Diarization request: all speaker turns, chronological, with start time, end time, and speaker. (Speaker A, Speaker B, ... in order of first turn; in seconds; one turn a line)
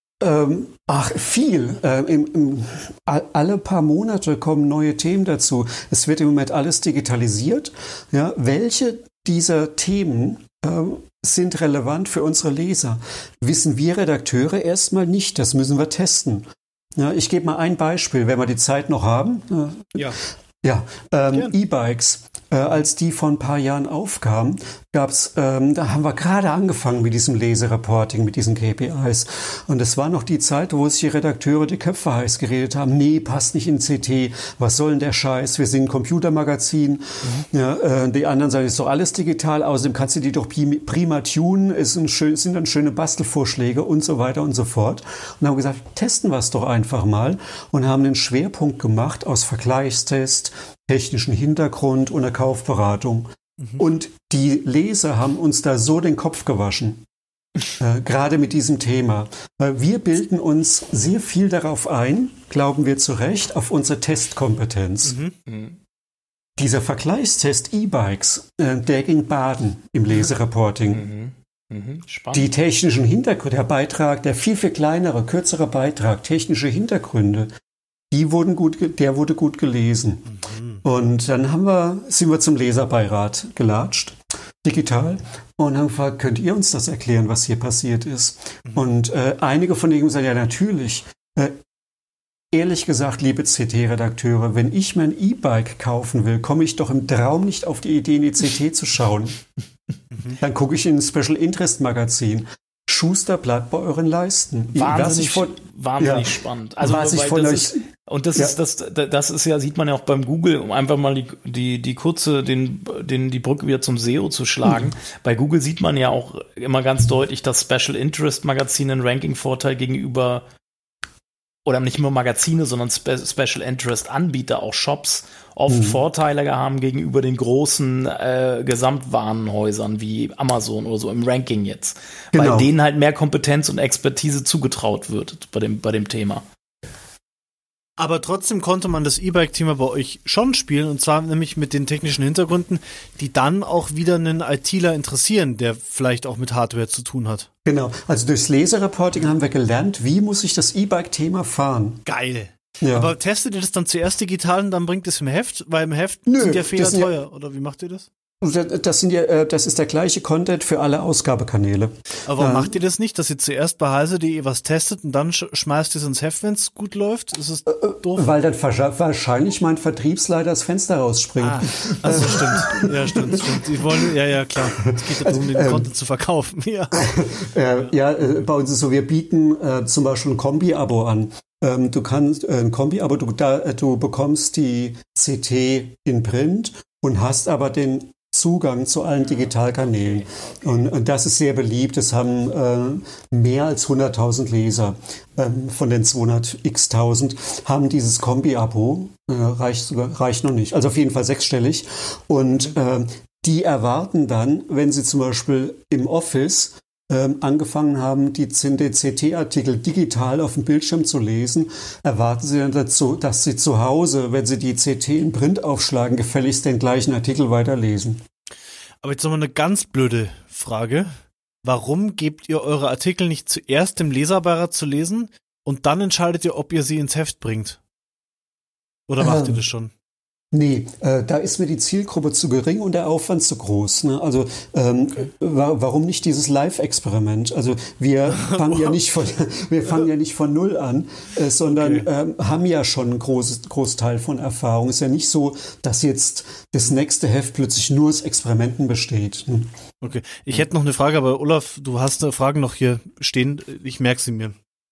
Speaker A: 0.2-57.0
Speaker A: 57.8-65.2
Speaker B: 65.0-65.3
Speaker C: 65.5-65.8
Speaker A: 66.6-71.0
Speaker C: 70.9-72.5
Speaker A: 72.3-77.5
Speaker A: 78.1-80.2
Speaker B: 80.3-80.8
Speaker A: 80.8-91.6
Speaker A: 92.5-99.4
Speaker B: 100.1-100.4
Speaker A: 100.4-107.8
Speaker C: 104.7-120.5
Speaker A: 114.6-114.9
Speaker C: 121.7-136.4
Speaker A: 125.7-126.0
Speaker A: 132.3-132.7
Speaker B: 138.0-147.5
Speaker A: 147.6-152.0
Speaker B: 152.0-158.1
Speaker A: 152.8-153.1
Speaker A: 156.3-157.1
Speaker A: 158.4-162.7
Speaker B: 162.2-168.3
Speaker A: 167.7-175.9
Speaker B: 171.4-177.9
Speaker A: 176.9-218.2
Speaker B: 219.0-227.8
Speaker B: 229.1-229.9
Speaker A: 229.2-229.6
Speaker A: 230.5-249.7
Speaker B: 238.4-238.9
Speaker B: 241.7-242.1
Speaker B: 250.0-254.6